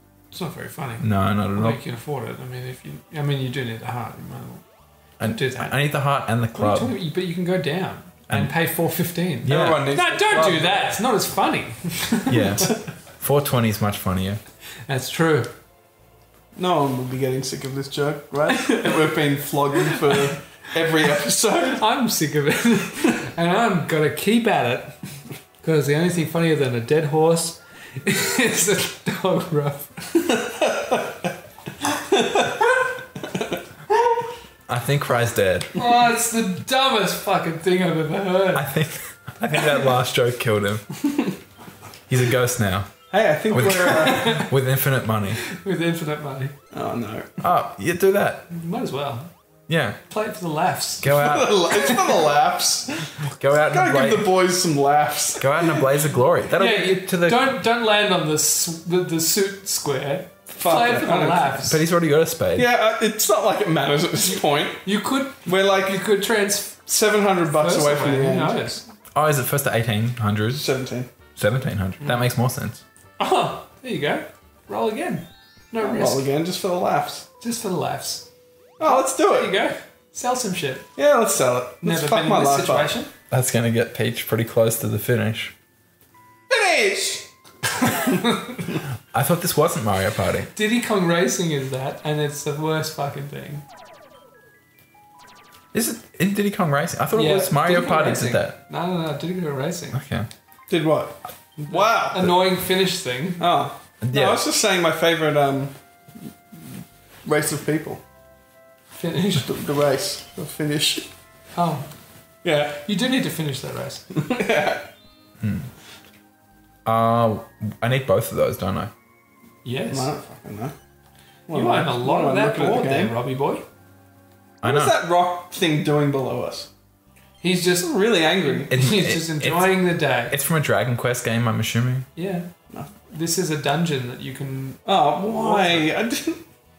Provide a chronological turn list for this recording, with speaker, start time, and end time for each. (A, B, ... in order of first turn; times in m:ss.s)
0:00.3-0:04.6 A
0:01.0-0:01.8 B
0:05.2-0:07.0 B
0:05.2-0:05.9 A
0:06.5-0:12.6 A
0:09.4-0:09.8 B
0:09.4-0:10.9 C
0:12.3-0:14.4 B
0:14.9-0:15.5 A
0:16.6-0:21.8 C
0:21.8-0:25.0 A
0:25.6-0:29.9 A
0:30.2-0:31.1 C
0:32.1-0:32.7 C
0:34.7-0:35.7 B
0:35.7-0:38.7 A
0:38.5-0:40.9 B
0:42.1-0:45.4 B
0:43.1-0:44.4 C
0:43.9-0:44.5 A
0:45.4-0:46.5 A
0:46.7-0:47.4 C
0:47.4-0:48.4 B
0:48.5-0:49.3 A
0:49.7-0:50.0 B
0:50.1-0:52.2 A
0:51.0-0:51.6 B
0:51.0-0:56.0 C
0:53.2-0:54.3 B
0:55.4-0:57.6 B
0:56.5-1:01.8 A
1:00.5-1:01.8 C
1:01.6-1:02.7 B
1:02.6-1:04.8 C
1:04.3-1:06.8 A
1:05.4-1:06.1 C
1:06.8-1:08.7 C
1:07.5-1:08.8 A
1:09.1-1:10.6 B
1:10.5-1:11.1 C
1:11.4-1:12.8 B
1:13.2-1:16.3 A
1:15.8-1:17.2 C
1:17.4-1:18.3 A
1:18.8-1:19.5 C
1:18.8-1:20.9 A
1:21.0-1:22.9 C
1:21.8-1:23.1 A
1:23.3-1:25.5 B
1:26.5-1:27.3 C
1:27.8-1:28.6 A
1:27.9-1:28.2 C
1:29.1-1:30.5 B
1:30.5-1:33.6 A
1:35.7-1:38.6 B
1:37.1-1:40.0 A
1:39.9-1:40.3 B
1:40.7-1:42.4 C
1:41.7-1:43.4 A
1:43.4-1:45.7 C
1:44.0-1:44.4 B
1:47.2-1:48.0 C
1:48.9-1:49.5 A
1:49.3-1:51.1 C
1:51.5-1:51.8 A
1:52.4-1:52.8 C
1:52.7-1:54.0 A
1:54.1-1:54.8 C
1:55.4-1:55.7 B
1:56.8-1:58.9 B
1:59.6-2:00.1 A
1:59.9-2:00.7 C
2:01.5-2:03.1 C
2:01.5-2:03.6 A
2:04.6-2:05.0 B
2:04.6-2:06.7 C
2:07.4-2:10.4 A
2:07.8-2:08.7 C
2:08.7-2:12.0 B
2:12.1-2:12.5 A
2:13.1-2:15.9 A
2:14.8-2:16.4 C